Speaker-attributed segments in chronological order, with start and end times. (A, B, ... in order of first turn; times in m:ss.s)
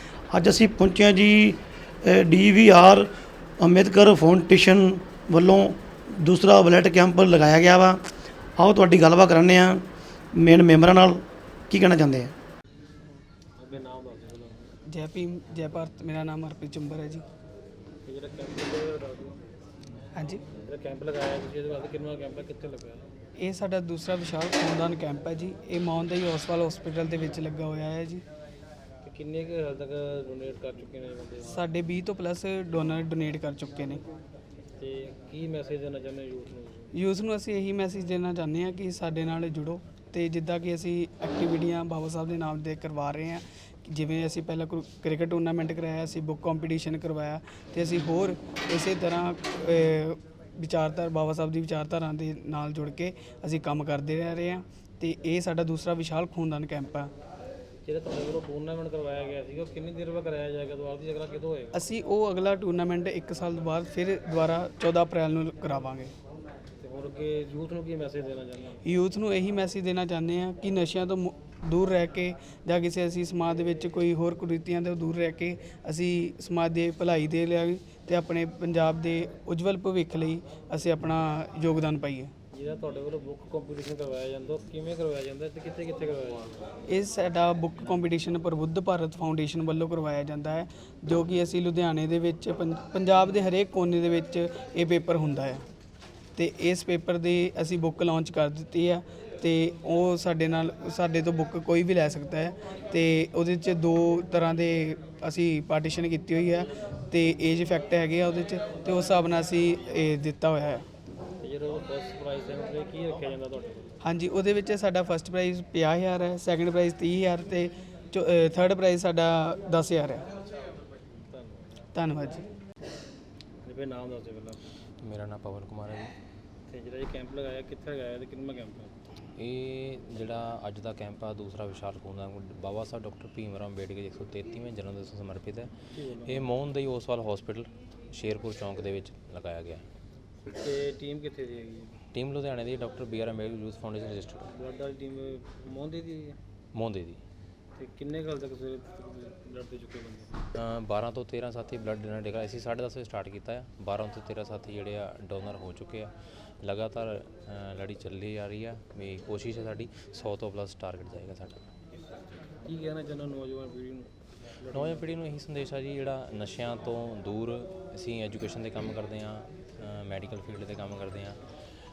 0:00.3-0:03.1 A
0:03.6-0:08.0 A
0:08.6-0:09.8 A
0:10.3-0:12.3 A
0:13.0-0:14.7 B
0:14.9-0:17.2 C
0:18.0-0:19.4 B
0:20.1-0:20.4 C
0:20.6-0:23.1 B
0:23.4-0:28.2 C
0:29.0-0:31.6 B
0:31.4-0:34.0 C
0:34.8-0:36.9 B
0:36.9-0:57.1 C
0:57.8-1:01.8 B
1:01.7-1:06.1 C
1:06.8-1:08.8 B
1:08.8-1:22.3 C
1:22.5-1:26.6 B
1:26.9-1:35.6 C
1:36.4-1:50.8 C
1:51.4-1:53.9 B
1:54.0-2:00.2 C
2:01.2-2:01.7 B
2:01.9-2:02.5 C
2:03.6-2:04.6 B
2:05.0-2:06.1 D
2:06.7-2:08.9 B
2:09.4-2:15.7 D
2:15.9-2:16.5 B
2:16.2-2:19.8 D
2:20.5-2:22.0 B
2:22.1-2:24.5 D
2:24.6-2:26.4 B
2:26.7-2:27.2 D
2:27.8-2:30.3 B
2:30.5-2:41.6 D
2:42.6-2:45.0 B
2:44.7-2:51.4 D